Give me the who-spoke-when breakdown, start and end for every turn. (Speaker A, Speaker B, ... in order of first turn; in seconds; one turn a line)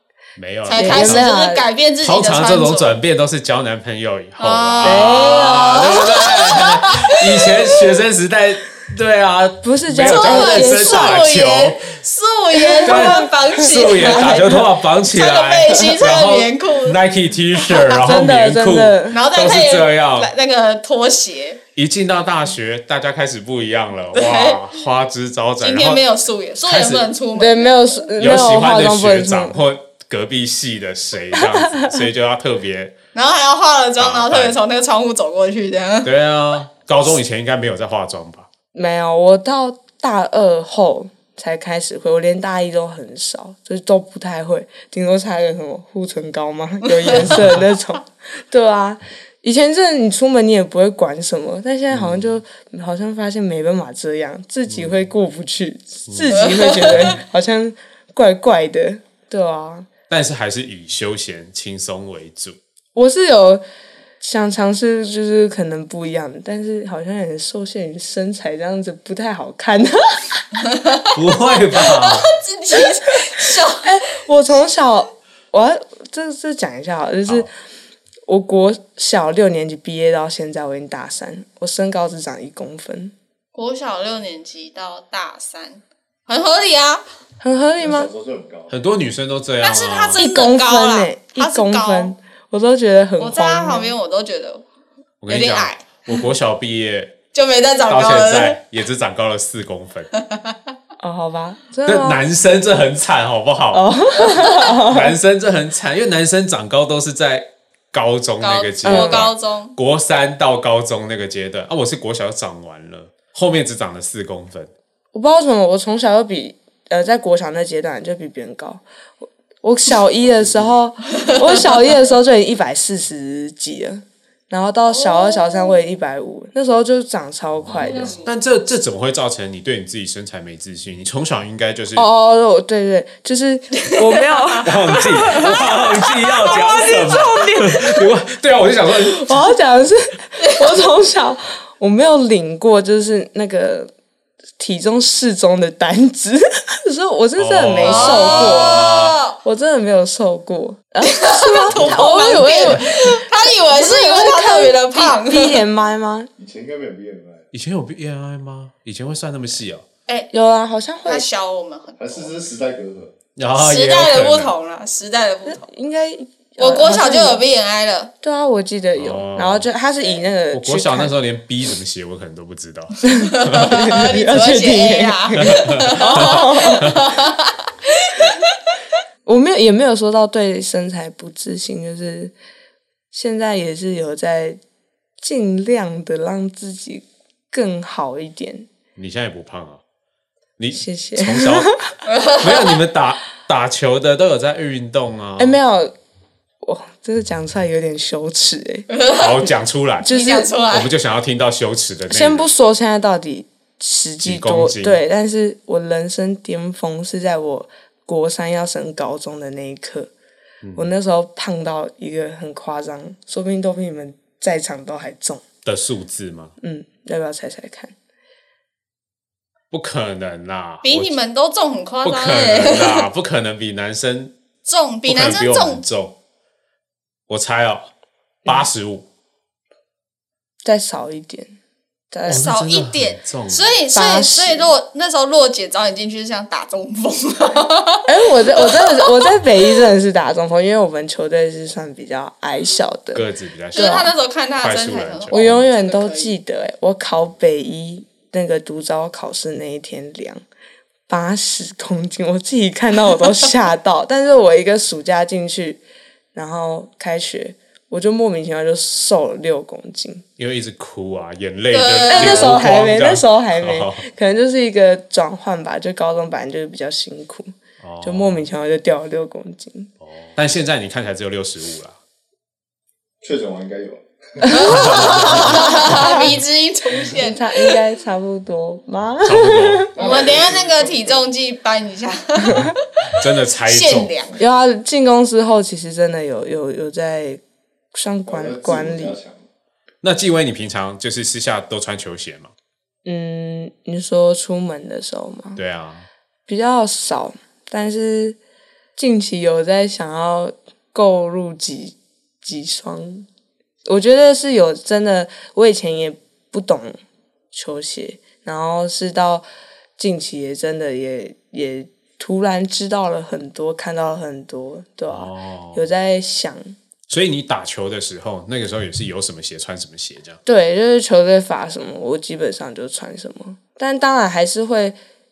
Speaker A: 0.3-1.3
Speaker B: 0.7-3.0
Speaker C: 0.7-1.6
Speaker A: 2.0-12.0
Speaker B: 4.4-7.9
Speaker C: 4.8-5.8
Speaker C: 9.6-11.2
Speaker B: 10.0-17.0
Speaker C: 12.5-14.6
Speaker A: 12.8-20.3
Speaker B: 17.6-18.0
Speaker C: 18.0-19.2
Speaker B: 19.1-21.6
Speaker A: 21.7-26.0
Speaker B: 24.1-24.6
Speaker B: 25.6-28.1
Speaker A: 26.6-27.1
Speaker C: 27.3-29.6
Speaker A: 28.2-32.9
Speaker C: 31.4-31.9
Speaker B: 33.1-36.1
Speaker A: 34.0-34.6
Speaker A: 36.0-38.5
Speaker C: 38.7-59.9
Speaker B: 47.0-47.4
Speaker A: 47.2-47.6
Speaker A: 51.9-52.3
Speaker A: 54.7-54.9
Speaker A: 56.1-57.2
Speaker B: 56.3-57.1
Speaker A: 60.1-62.6
Speaker C: 62.9-63.6
Speaker C: 64.2-70.4
Speaker B: 70.6-71.1
Speaker A: 71.1-72.3
Speaker B: 71.7-73.9
Speaker C: 73.3-77.5
Speaker C: 78.3-83.1
Speaker B: 83.5-87.0
Speaker C: 87.4-88.1
Speaker D: 87.8-88.7
Speaker A: 88.7-90.2
Speaker B: 89.6-92.1
Speaker C: 90.1-93.9
Speaker B: 93.2-94.6
Speaker A: 95.2-97.1
Speaker B: 95.3-96.2
Speaker B: 97.3-98.6
Speaker A: 97.9-100.1
Speaker B: 100.2-100.6
Speaker C: 101.0-102.2
Speaker A: 101.8-114.7
Speaker C: 103.7-105.1
Speaker B: 108.4-109.7
Speaker C: 108.8-109.3
Speaker C: 115.1-118.8
Speaker C: 119.6-128.2
Speaker D: 120.2-120.8
Speaker B: 124.9-125.8
Speaker A: 127.7-132.1
Speaker B: 127.7-128.3
Speaker C: 131.9-138.1
Speaker B: 133.8-137.2
Speaker A: 134.6-139.5
Speaker C: 139.1-143.9
Speaker B: 140.4-140.7
Speaker C: 144.6-148.9
Speaker A: 147.4-149.2
Speaker B: 147.8-149.4
Speaker C: 149.4-156.3
Speaker B: 151.0-155.6
Speaker D: 156.4-157.4
Speaker A: 157.5-159.8
Speaker C: 160.3-161.3
Speaker B: 161.1-162.4
Speaker D: 162.0-163.1
Speaker A: 163.3-164.5
Speaker B: 163.5-165.7
Speaker C: 165.4-167.4
Speaker B: 166.6-168.1
Speaker C: 168.2-171.1
Speaker A: 168.9-169.7
Speaker A: 170.5-173.7
Speaker C: 173.1-176.9
Speaker B: 173.2-178.5
Speaker A: 175.4-177.1
Speaker C: 179.2-182.3
Speaker C: 183.1-184.6
Speaker C: 185.2-188.7
Speaker A: 188.9-189.8
Speaker A: 190.6-191.7
Speaker C: 190.7-191.8
Speaker B: 192.1-192.8
Speaker A: 192.4-195.6
Speaker C: 195.4-195.9
Speaker C: 196.6-198.9
Speaker B: 198.9-199.4
Speaker A: 199.2-200.1
Speaker C: 200.0-200.5
Speaker B: 200.1-200.9
Speaker A: 200.7-202.5
Speaker C: 202.1-210.1
Speaker A: 204.2-205.0
Speaker A: 210.6-210.9
Speaker C: 210.8-215.4
Speaker A: 215.6-216.5
Speaker C: 216.6-217.9
Speaker A: 219.7-221.2
Speaker B: 220.8-223.1
Speaker A: 222.0-224.3
Speaker B: 224.6-225.8
Speaker A: 225.0-226.1
Speaker A: 227.3-227.9
Speaker A: 228.4-229.0
Speaker C: 230.6-231.5
Speaker C: 232.1-232.5
Speaker A: 232.2-233.8
Speaker B: 232.3-239.4
Speaker C: 233.9-234.7
Speaker C: 238.1-244.1
Speaker A: 243.1-245.7
Speaker B: 243.7-246.3
Speaker C: 245.3-250.4
Speaker C: 251.1-255.8
Speaker C: 256.3-260.2
Speaker A: 260.4-264.0
Speaker B: 261.7-262.6
Speaker C: 262.1-269.9
Speaker A: 267.8-268.5
Speaker A: 270.0-272.0
Speaker D: 273.2-275.9
Speaker C: 274.4-276.3
Speaker B: 274.5-277.8
Speaker A: 274.8-275.9
Speaker C: 277.2-279.9
Speaker A: 279.2-279.9
Speaker D: 279.9-281.3
Speaker B: 280.0-284.4
Speaker C: 282.4-282.7
Speaker A: 283.2-284.1
Speaker C: 284.4-287.4
Speaker C: 287.9-289.2
Speaker D: 288.3-289.5
Speaker A: 290.0-292.5
Speaker C: 293.0-295.6
Speaker A: 295.5-296.1
Speaker C: 296.5-298.4
Speaker C: 299.0-303.3
Speaker C: 303.9-307.0
Speaker C: 307.5-309.4
Speaker C: 310.0-316.8
Speaker A: 315.1-315.8
Speaker A: 317.1-320.4
Speaker C: 320.4-325.0